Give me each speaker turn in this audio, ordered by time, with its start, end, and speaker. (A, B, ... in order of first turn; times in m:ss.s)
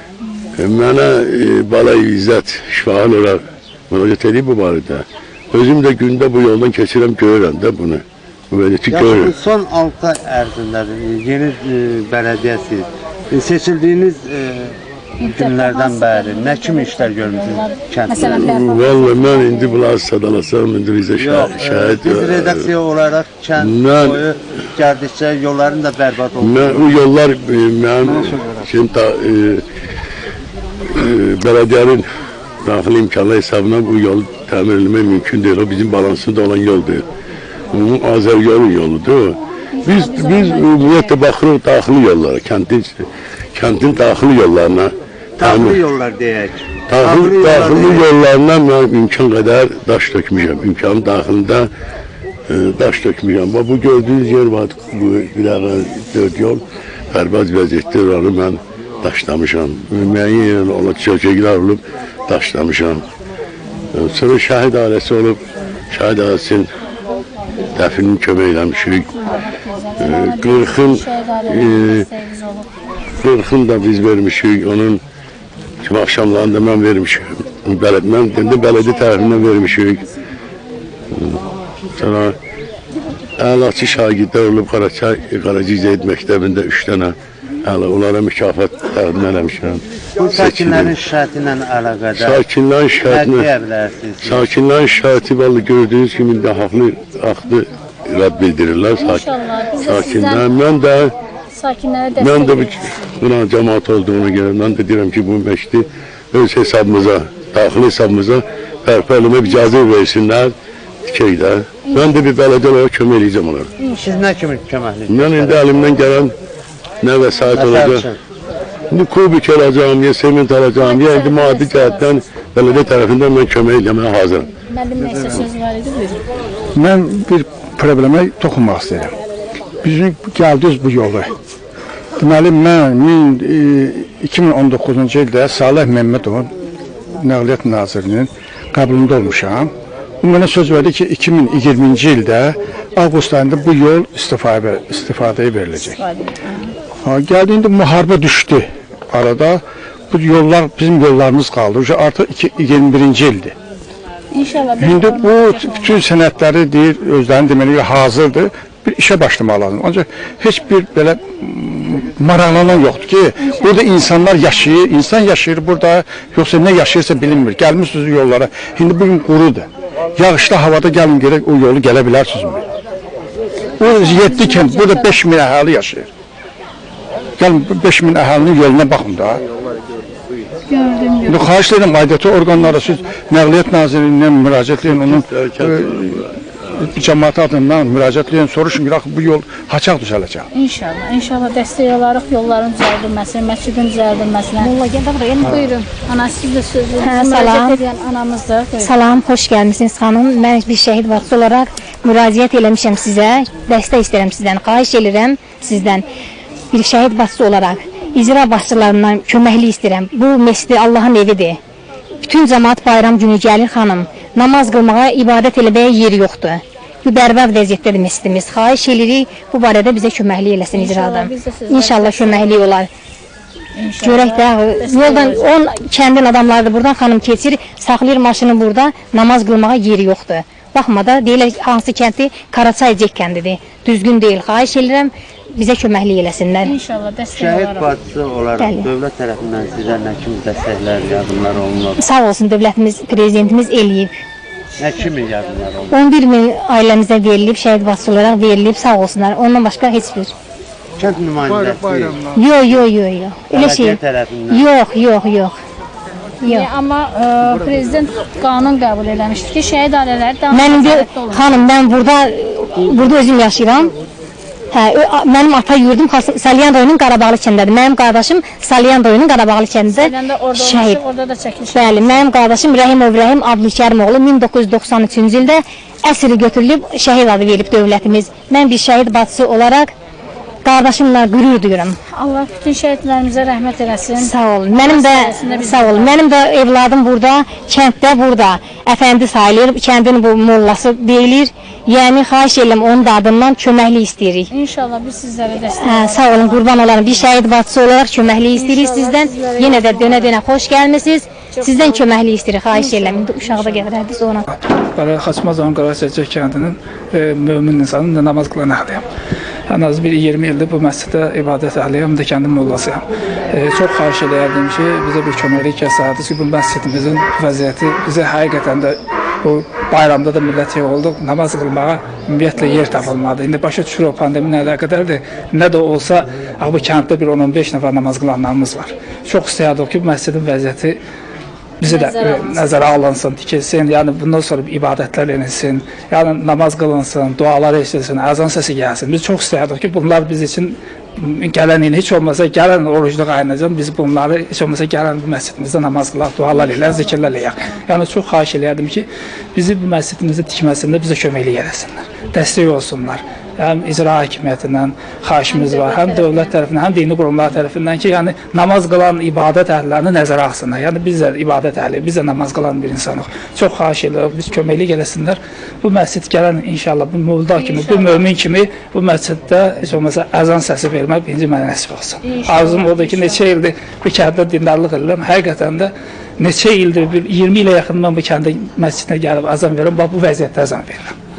0:00.6-0:09.3 A
0:08.9-0:14.7 B
0:15.2-0:19.0 C
0:15.3-0:18.3 B
0:18.2-0:22.7 A
0:21.2-0:26.9 B
0:23.6-0:24.2 A
0:26.4-0:29.6 A
0:31.0-0:32.0 A
0:32.6-0:37.0 A
0:37.7-0:43.0 A
0:39.8-0:41.2 C
0:43.6-0:45.9 A
0:45.4-0:48.0 B
0:46.9-0:51.7 A
0:52.5-0:56.6 A
0:57.1-1:03.0 A
1:04.0-1:05.4 A
1:05.9-1:06.7 A
1:07.7-1:09.2 A
1:09.2-1:12.7 C
1:10.0-1:12.1 A
1:13.2-1:15.0 A
1:15.8-1:20.1 A
1:21.1-1:21.4 A
1:22.0-1:22.4 A
1:23.4-1:31.0 A
1:30.4-1:32.3 B
1:32.2-1:33.5 A
1:33.1-1:34.3 B
1:34.2-1:39.3 A
1:39.0-1:40.4 C
1:39.8-1:41.1 A
1:41.6-1:42.9 C
1:42.2-1:50.5 A
1:51.1-1:53.7 A
1:51.8-1:52.2 C
1:53.8-1:54.2 C
1:54.0-1:55.6 B
1:55.1-1:56.3 A
1:57.0-1:58.1 A
1:57.6-1:58.2 B
1:58.9-2:04.5 A
2:00.8-2:02.1 C
2:04.7-2:06.2 C
2:06.8-2:09.1 D
2:09.8-2:11.3 D
2:12.2-2:16.5 D
2:17.2-2:26.0 D
2:26.0-2:26.7 C
2:27.0-2:33.6 D
2:34.3-2:36.0 C
2:34.8-2:52.6 D
2:43.4-2:43.8 C
2:53.8-2:56.1 D
2:53.8-2:55.2 C
2:57.4-2:59.4 D
3:00.7-3:01.5 C
3:01.3-3:10.5 D
3:04.8-3:06.7 A
3:10.5-3:14.7 C
3:14.6-3:15.7 E
3:15.4-3:18.9 C
3:15.4-3:15.7 D
3:17.0-3:17.8 E
3:18.8-3:26.0 E
3:26.7-3:31.6 E
3:32.2-3:42.9 E
3:40.7-3:42.6 C
3:43.8-3:45.5 C
3:44.0-3:56.8 E
3:56.6-3:58.0 C
3:57.4-4:02.0 B
3:58.6-3:58.9 E
4:02.0-4:04.1 E
4:04.8-4:05.9 B
4:05.9-4:10.3 E
4:11.0-4:12.2 B
4:12.3-4:15.5 E
4:13.6-4:14.6 B
4:16.4-4:21.5 C
4:20.5-4:23.9 E
4:24.7-4:31.0 E
4:29.9-4:32.2 C
4:31.7-4:39.9 E
4:40.6-4:42.0 E
4:42.2-4:46.2 C
4:44.2-4:54.5 E
4:54.5-4:57.2 C
4:55.6-5:04.5 E
4:58.5-5:00.3 C
5:01.6-5:02.1 C
5:02.7-5:03.8 C
5:04.9-5:09.1 F
5:09.7-5:31.0 F
5:31.8-6:21.2 F
5:31.8-5:33.1 C
5:55.5-5:56.7 C
6:07.6-6:08.3 C
6:12.2-6:13.5 C